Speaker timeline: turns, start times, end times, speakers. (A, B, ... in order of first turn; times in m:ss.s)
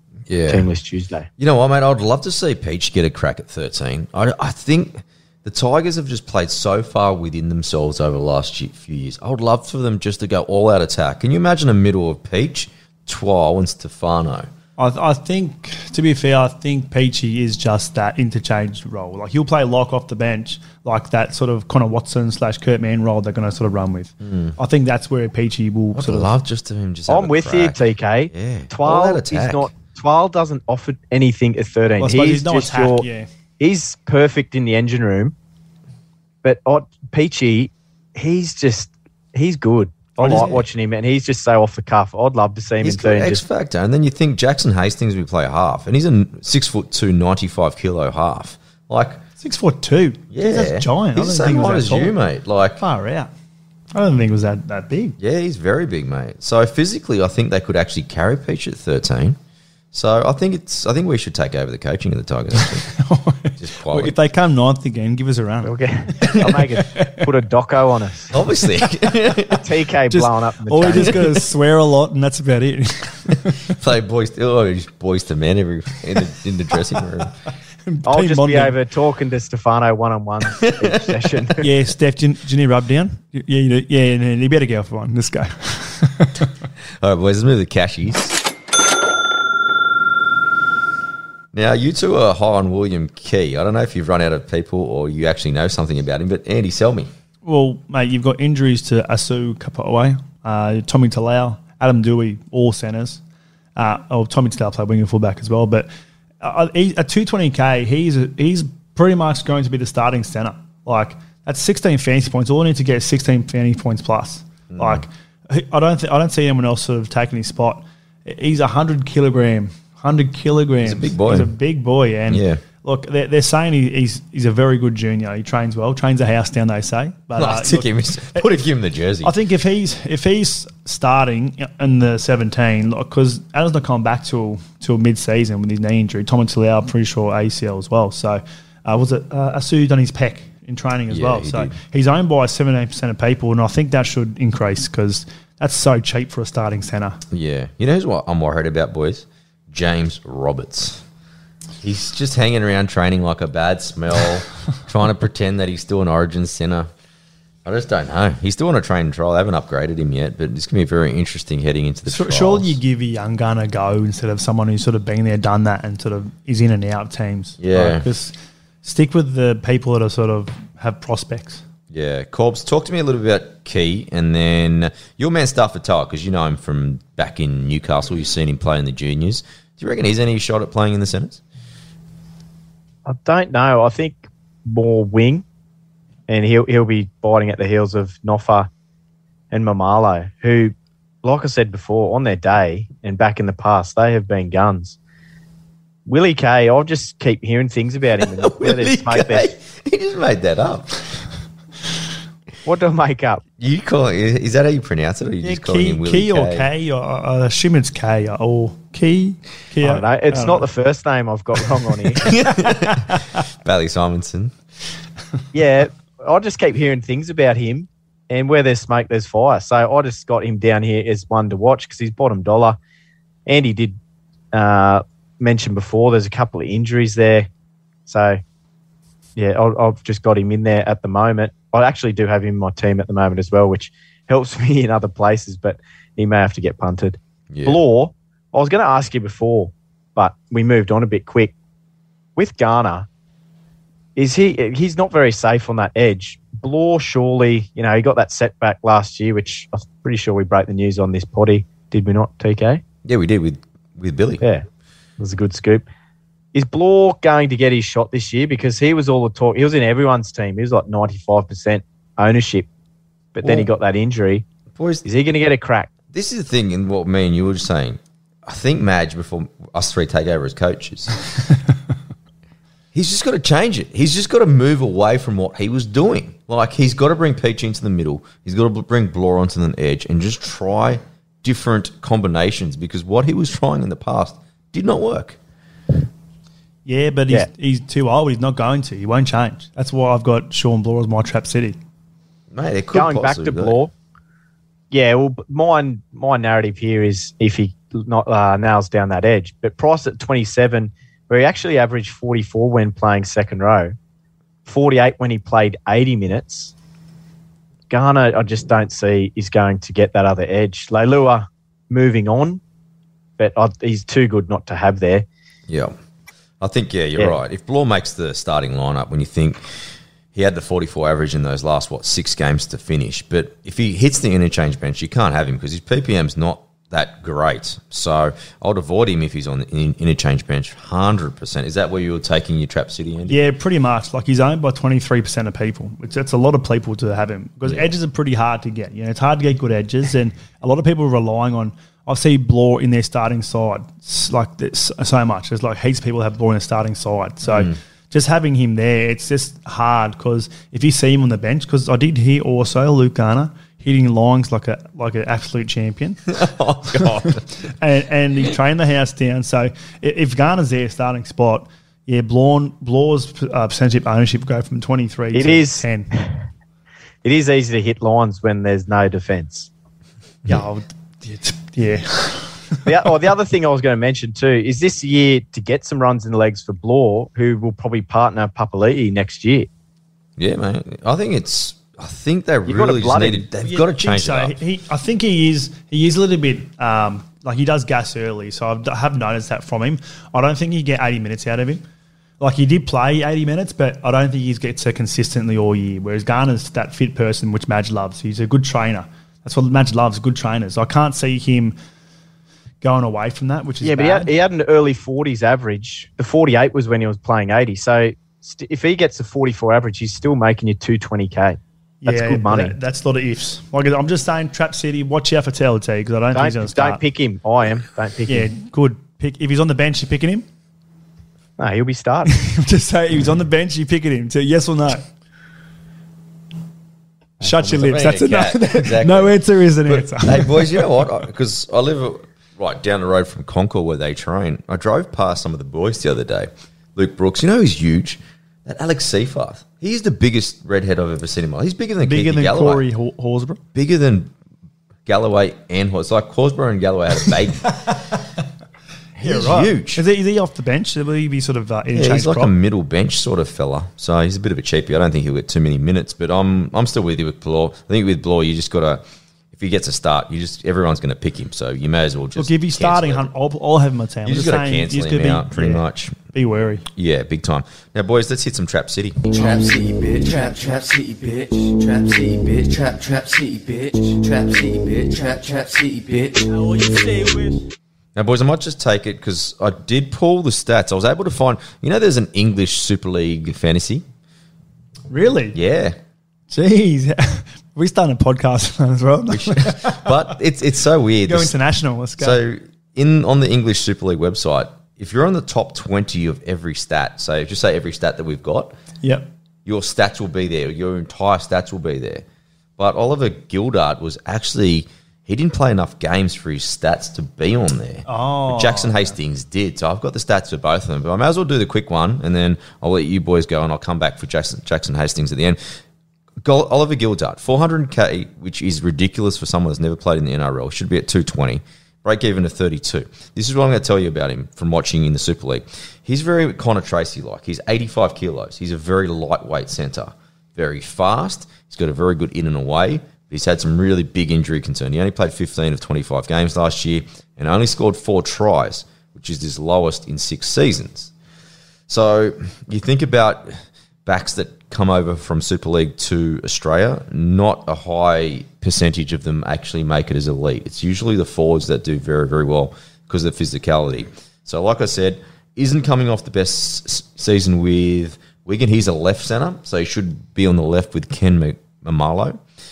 0:00.3-0:00.7 A
0:00.5-0:01.3 B
0:01.4-0:14.5 A
0:14.8-0:26.3 C
0:24.2-0:24.5 A
0:25.9-0:27.8 A
0:27.1-0:33.0 B
0:28.3-0:29.7 A
0:32.0-0:33.3 C
0:33.6-0:35.3 B
0:36.4-0:43.4 B
0:40.2-0:40.6 C
0:40.3-0:40.6 A
0:42.8-0:49.2 A
0:49.4-0:52.1 C
0:50.3-0:52.8 A
0:52.8-0:53.3 C
0:53.9-0:55.2 C
0:55.2-0:59.4 A
0:59.9-1:02.9 A
1:02.9-1:07.2 C
1:03.6-1:04.1 A
1:05.6-1:08.4 B
1:08.3-1:09.6 A
1:09.5-1:11.2 B
1:10.1-1:13.7 C
1:13.6-1:17.3 A
1:17.9-1:18.7 C
1:18.0-1:21.6 B
1:20.6-1:20.9 A
1:21.6-1:26.5 C
1:27.0-1:28.4 A
1:31.5-1:37.1 A
1:37.4-1:43.2 C
1:43.8-1:45.9 C
1:46.4-2:08.4 C
1:54.7-1:55.0 A
2:00.8-2:01.5 A
2:02.3-2:02.6 A
2:07.4-2:09.3 A
2:09.2-2:27.2 C
2:21.1-2:21.7 A
2:27.3-2:31.0 A
2:31.8-2:36.9 A
2:37.6-2:42.8 A
2:42.1-2:51.6 C
2:47.6-2:48.0 A
2:51.9-3:01.4 A
3:03.0-3:05.4 B
3:06.3-3:08.7 B
3:09.5-3:15.0 B
3:16.1-3:19.5 B
3:18.2-3:21.0 A
3:22.6-3:23.4 B
3:23.6-3:26.7 A
3:25.4-3:30.6 C
3:29.8-3:32.4 B
3:32.2-3:34.6 A
3:32.8-3:33.4 C
3:35.5-3:42.8 B
3:43.4-3:44.0 B
3:44.5-3:47.5 B
3:48.1-3:48.4 B
3:49.4-4:01.5 B
3:57.5-3:57.8 A
4:02.4-4:03.1 B
4:04.2-4:12.8 B
4:13.0-4:14.4 A
4:15.2-4:15.9 B
4:16.5-4:22.7 B
4:23.3-4:24.4 B
4:24.7-4:25.0 A
4:25.0-4:25.9 B
4:26.1-4:31.2 A
4:32.9-4:45.4 A
4:46.8-4:51.8 C
4:52.5-4:53.8 A
4:52.9-4:53.9 B
4:54.9-5:03.9 B
5:04.6-5:06.7 B
5:07.9-5:12.6 B
5:13.4-5:15.2 B
5:15.7-5:15.9 A
5:16.6-5:33.4 A
5:33.3-5:56.3 C
5:47.5-5:47.7 A
5:56.3-5:57.5 A
5:56.9-6:06.1 C
6:05.3-6:06.3 B
6:07.2-6:09.7 B
6:10.4-6:12.8 C
6:12.8-6:19.7 B
6:20.4-6:24.6 A
6:22.7-6:23.5 B
6:23.6-6:31.8 C
6:32.4-6:41.7 C
6:42.8-6:44.3 C
6:43.8-6:52.7 B
6:52.0-6:57.0 C
6:56.3-6:58.5 B
6:58.3-7:00.4 C
7:01.6-7:02.3 B
7:02.3-7:05.0 C
7:07.4-7:10.8 C
7:07.4-7:22.8 A
7:22.0-7:23.6 C
7:23.7-7:24.3 A
7:25.0-7:28.0 A
7:29.2-7:30.0 A
7:29.2-7:32.5 C
7:31.9-7:39.0 A
7:39.5-7:43.3 A
7:42.3-7:46.8 C
7:44.2-7:46.2 A
7:46.9-7:49.2 A
7:49.3-7:56.6 D
7:56.5-7:57.7 C
7:58.1-8:04.0 A
8:05.1-8:05.6 C
8:05.5-8:06.0 A
8:06.5-8:10.3 C
8:09.3-8:11.5 A
8:11.2-8:12.4 C
8:12.2-8:18.7 A
8:19.0-8:19.3 C
8:19.6-8:22.2 A
8:22.8-8:35.6 A
8:28.0-8:29.1 C
8:36.4-9:01.1 A
9:01.9-9:22.4 A